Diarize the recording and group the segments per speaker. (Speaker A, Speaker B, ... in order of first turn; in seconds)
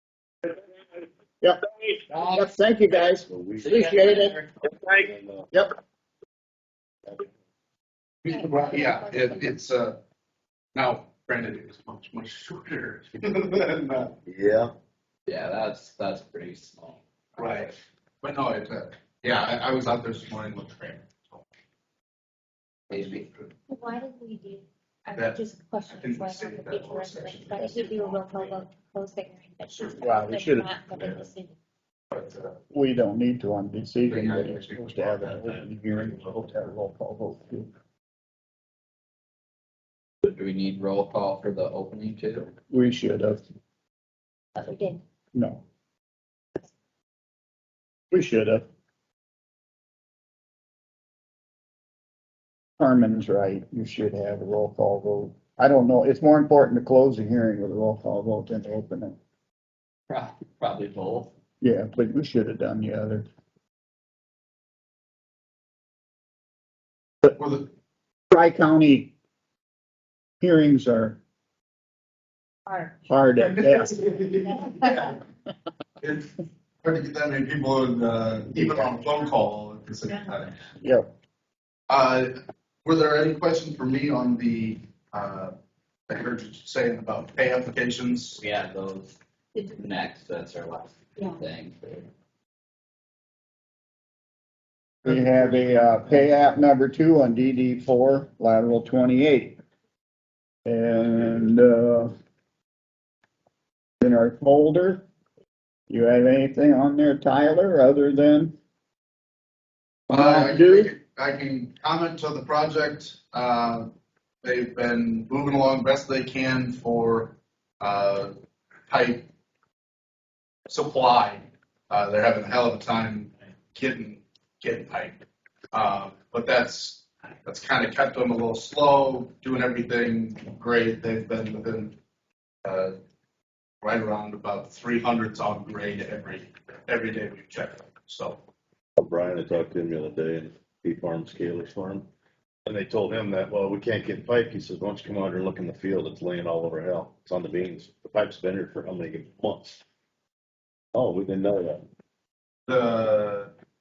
Speaker A: 2.1-2.4, 3.6-4.5, 15.2-17.7, 22.9-23.2, 40.2-42.5, 60.1-61.3, 88.4-89.2, 89.7-92.1
Speaker B: 2.3-4.3, 30.0-30.7, 32.7-37.7, 42.7-43.4, 45.3-45.6, 48.1-48.6, 52.8-59.2, 61.6-63.2, 68.3-69.1, 70.4-71.2, 73.1-74.0, 78.5-78.9, 80.8-81.1, 95.0-99.6, 100.6-102.1, 104.0-105.0, 105.9-108.5, 110.1-110.9
Speaker C: 3.2-4.0, 4.8-5.5, 14.2-14.7, 139.0-142.1, 142.6-149.8, 150.9-151.8
Speaker D: 8.2-10.0, 10.7-14.1, 17.4-21.4, 22.9-23.5, 25.1-28.5, 29.7-30.1, 30.9-31.2, 32.1-32.6, 34.0-36.4, 67.3-67.7, 73.4-75.2, 76.0-80.5, 81.9-85.5, 86.1-88.4, 110.1-118.3, 118.9-119.3, 120.7-125.2, 125.7-131.9, 132.6-132.9, 133.8-138.4, 152.7-153.5
Speaker E: 8.3-9.5, 23.7-31.5, 44.7-45.0, 72.7-73.0